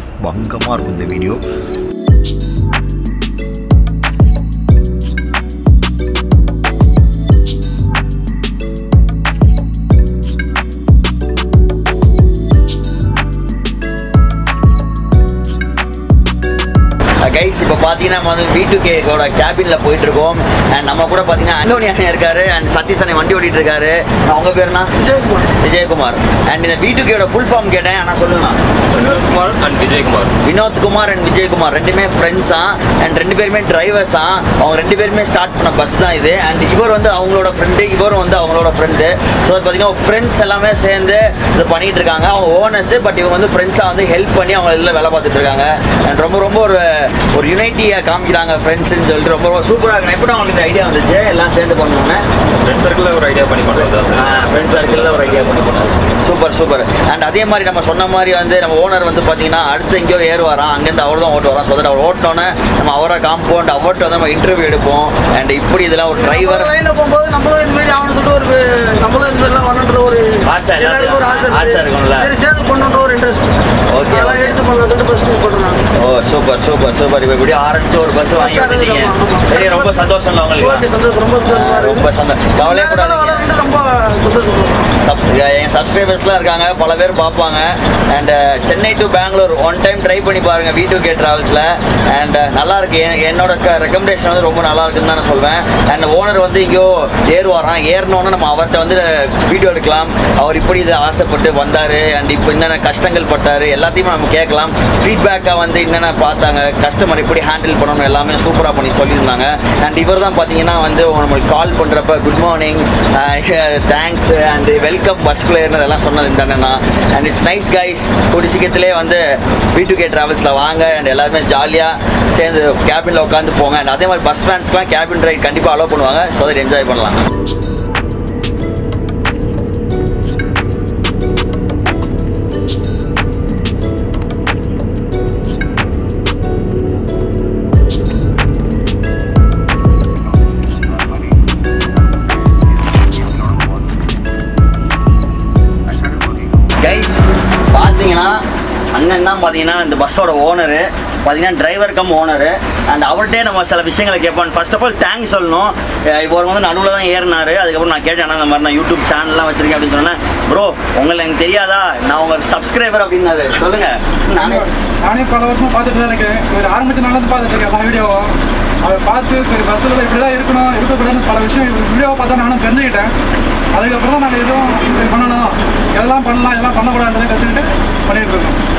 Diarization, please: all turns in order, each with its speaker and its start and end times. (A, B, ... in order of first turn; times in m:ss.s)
0:00.2-0:01.4 A
0:17.2-0:24.9 A
0:25.0-0:25.5 B
0:25.5-0:28.6 A
0:28.9-0:30.3 C
0:30.4-0:52.2 A
0:52.5-0:55.8 C
0:54.1-1:06.7 A
1:06.2-1:15.8 B
1:10.4-1:12.3 A
1:13.9-1:14.7 A
1:16.0-1:20.9 A
1:18.4-1:20.0 B
1:20.6-1:22.0 B
1:21.4-1:23.6 A
1:22.6-1:24.9 B
1:25.0-2:07.3 A
2:23.0-2:23.6 A
2:26.0-2:27.2 A
2:27.7-2:28.4 A
2:28.9-2:44.7 A
2:44.4-2:48.3 D
2:48.8-2:53.1 D
2:53.7-2:58.6 D